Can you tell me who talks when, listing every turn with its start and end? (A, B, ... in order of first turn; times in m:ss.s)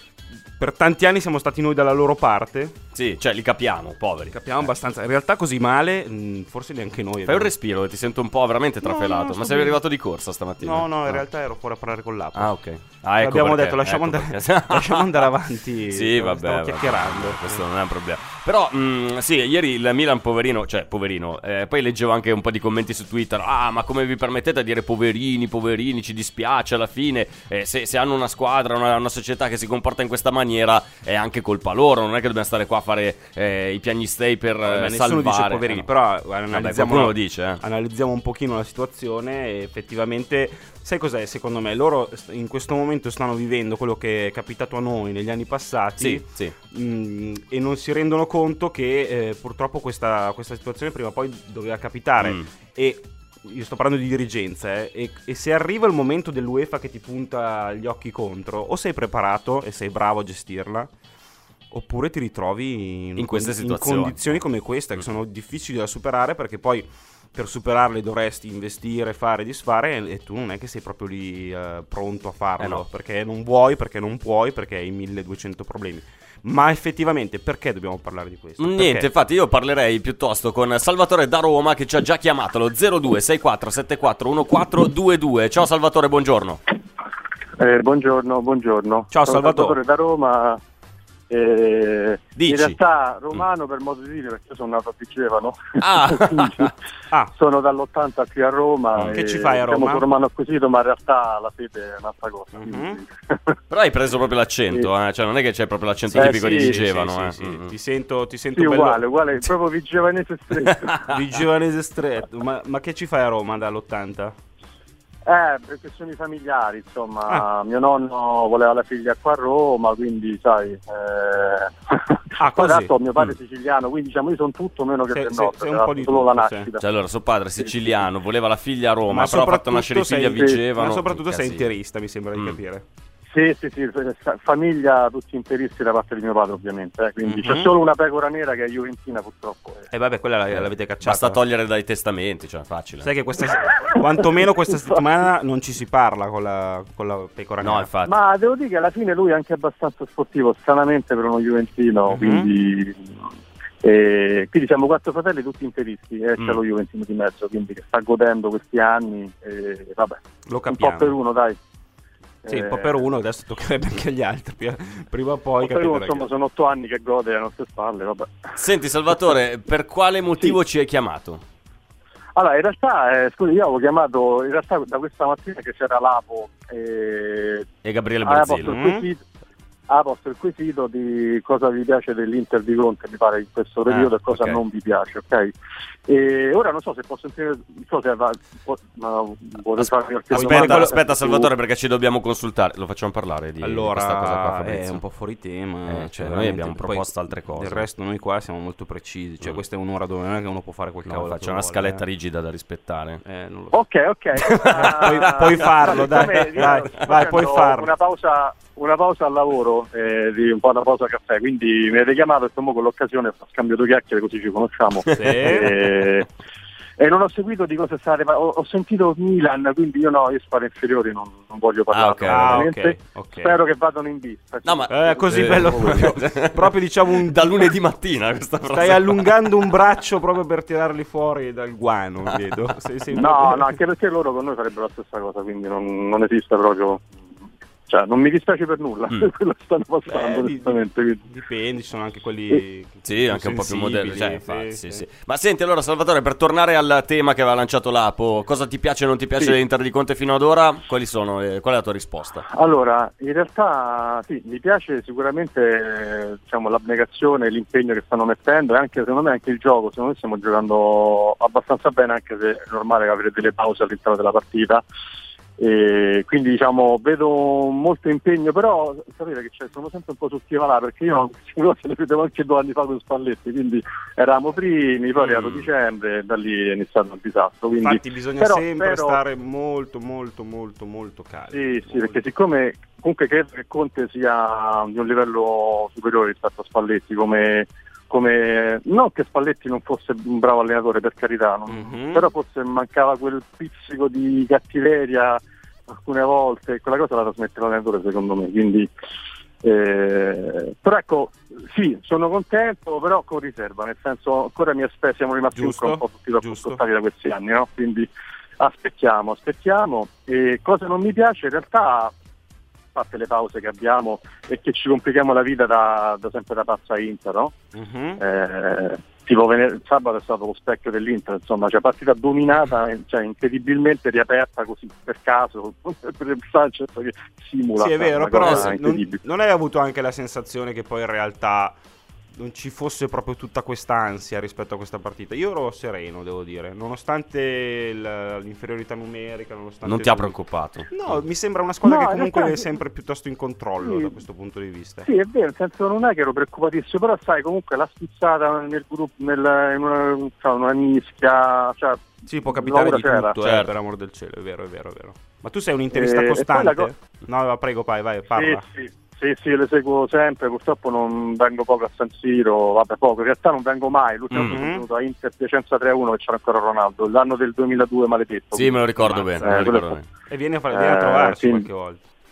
0:00.6-0:02.8 A
0:02.9-0:04.4 B
0:04.3-0:07.5 A
0:07.2-0:11.2 B
0:08.8-0:09.8 A
0:10.6-0:12.5 A
0:12.3-0:15.3 B
0:13.2-0:17.6 A
0:15.9-0:35.9 B
0:34.6-1:00.9 A
0:36.5-0:37.6 B
0:46.0-0:46.5 B
0:52.2-0:52.5 B
1:01.7-1:19.1 A
1:03.2-1:04.4 B
1:12.6-1:12.8 B
1:18.6-1:26.6 B
1:27.6-1:30.6 C
1:29.1-1:29.8 A
1:31.3-1:36.7 C
1:32.4-1:32.8 B
1:35.8-1:36.7 B
1:37.3-1:43.5 C
1:39.1-1:40.0 A
1:42.5-1:43.0 A
1:43.7-1:47.7 B
1:46.1-1:49.0 A
1:46.2-1:46.7 C
1:48.5-1:51.0 C
1:51.0-1:54.4 A
1:55.2-2:06.8 C
2:02.4-2:02.9 A
2:05.1-2:06.7 A
2:06.8-2:11.7 B
2:07.6-2:07.9 C
2:09.1-2:12.8 A
2:13.3-2:19.9 C
2:17.4-2:17.7 A
2:19.9-2:21.4 A
2:20.5-2:23.1 B
2:23.0-2:27.9 A
2:27.6-2:28.1 B
2:28.0-2:33.2 C
2:32.1-2:32.5 A
2:33.8-2:41.6 C
2:40.4-2:41.2 A
2:42.4-2:43.0 C
2:42.5-2:46.3 A
2:45.6-2:48.4 C
2:48.6-2:51.4 B
2:52.4-2:57.7 C
2:57.8-2:58.8 B
2:58.2-2:59.2 C
2:58.6-2:59.1 A
2:59.9-3:05.5 C
3:03.9-3:04.6 B
3:06.1-3:11.5 C
3:10.3-3:11.0 A
3:10.3-3:15.0 B
3:13.6-3:22.0 A
3:15.9-3:17.8 B
3:21.1-3:23.2 B
3:23.2-3:23.8 A
3:23.7-3:36.3 C
3:24.4-3:26.7 B
3:24.6-3:27.9 A
3:35.1-3:35.8 A
3:35.1-3:35.6 B
3:37.0-3:46.0 C
3:41.9-3:42.7 B
3:42.2-3:43.6 A
3:44.6-3:49.4 B
3:44.9-3:47.8 A
3:48.7-3:53.8 A
3:52.2-3:52.7 B
3:53.1-3:57.1 C
3:57.9-4:01.2 C
4:00.1-4:05.0 A
4:03.0-4:12.4 B
4:12.5-4:24.8 C
4:25.6-4:39.2 C
4:35.3-4:35.6 B
4:37.8-4:42.2 A
4:41.5-4:58.9 C
4:51.7-4:52.3 A
4:59.6-5:08.1 C
5:05.5-5:06.8 A
5:08.6-5:12.1 C
5:12.9-5:17.5 C
5:17.7-5:18.2 A
5:18.2-5:29.2 C
5:27.8-5:31.8 A
5:28.4-5:28.7 B
5:32.3-5:40.3 A
5:39.8-5:41.2 B
5:40.9-5:45.1 A
5:41.8-5:42.7 C
5:43.8-5:44.1 C
5:45.0-5:53.3 C
5:52.2-5:58.6 A
5:53.4-5:53.7 B
5:55.9-5:56.9 C
5:58.3-6:08.8 C
6:04.3-6:04.8 A
6:04.3-6:04.6 B
6:08.5-6:10.0 B
6:09.0-6:09.5 A
6:09.4-6:10.0 C
6:10.3-6:12.0 A
6:10.7-6:11.7 C